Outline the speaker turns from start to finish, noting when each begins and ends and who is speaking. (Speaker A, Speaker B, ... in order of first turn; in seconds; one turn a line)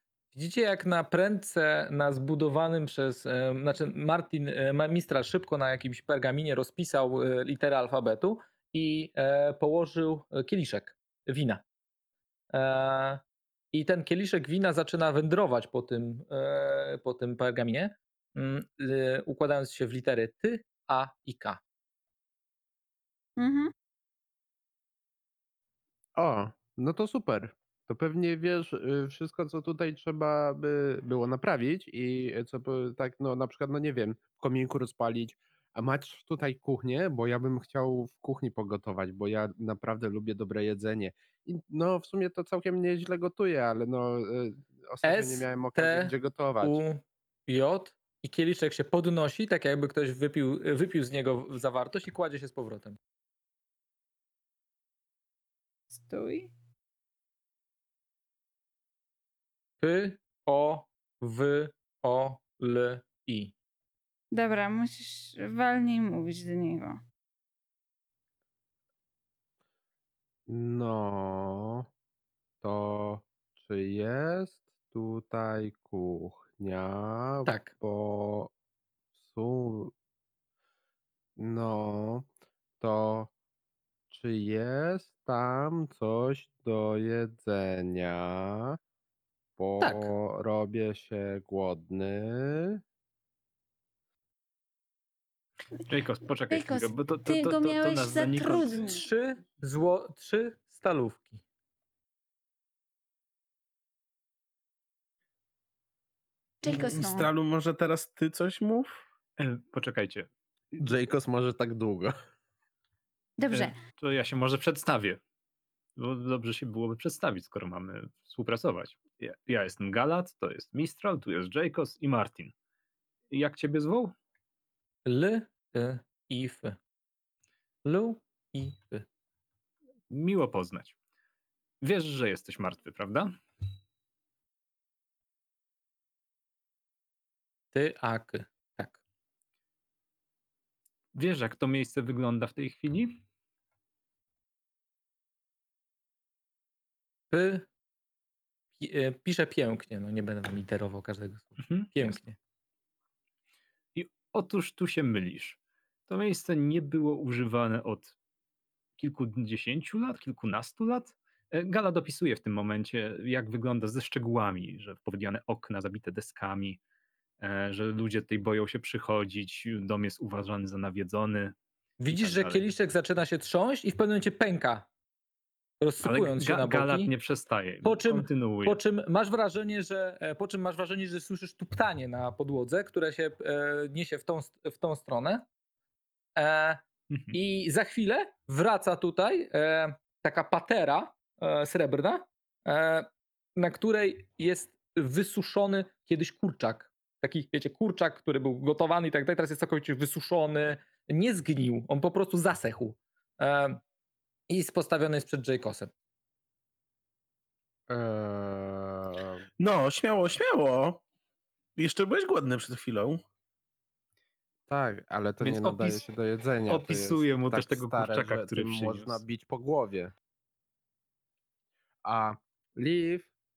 Speaker A: 0.3-11.6
Speaker A: 12.5-13.2
Speaker A: 13.7-21.6
Speaker B: 23.4-23.7
Speaker C: 26.1-46.8
Speaker A: 45.0-53.0
Speaker B: 56.0-56.5
Speaker A: 59.8-63.5
Speaker B: 64.3-67.0
Speaker C: 70.5-71.9
Speaker C: 72.6-78.5
Speaker A: 77.5-77.7
Speaker C: 79.2-79.9
Speaker C: 81.4-82.3
Speaker C: 82.8-83.3
Speaker C: 84.1-88.8
Speaker C: 89.6-92.8
Speaker A: 89.8-90.1
Speaker D: 95.8-98.8
Speaker B: 96.5-99.0
Speaker A: 98.8-101.4
Speaker B: 106.6-107.3
Speaker E: 106.7-108.9
Speaker D: 109.4-110.3
Speaker C: 110.8-112.1
Speaker B: 113.4-113.7
Speaker D: 113.5-115.2
Speaker D: 116.0-122.5
Speaker D: 123.3-124.1
Speaker A: 125.0-126.8
Speaker A: 127.8-129.0
Speaker D: 130.1-130.9
Speaker D: 131.8-133.3
Speaker A: 137.7-139.0
Speaker D: 141.1-143.2
Speaker A: 147.3-147.7
Speaker A: 148.8-152.3
Speaker D: 151.6-152.2
Speaker D: 153.9-158.1
Speaker D: 159.0-166.8
Speaker D: 167.4-171.6
Speaker A: 172.0-174.9
Speaker D: 172.1-172.6
Speaker A: 175.8-177.1
Speaker D: 176.0-178.8
Speaker A: 177.8-185.4
Speaker A: 186.3-203.8
Speaker D: 187.1-187.4
Speaker A: 204.5-205.9
Speaker C: 207.9-209.4
Speaker E: 209.6-211.0
Speaker E: 211.8-213.2
Speaker C: 214.7-220.1
Speaker D: 215.4-216.1
Speaker D: 216.7-219.2
Speaker C: 222.0-223.3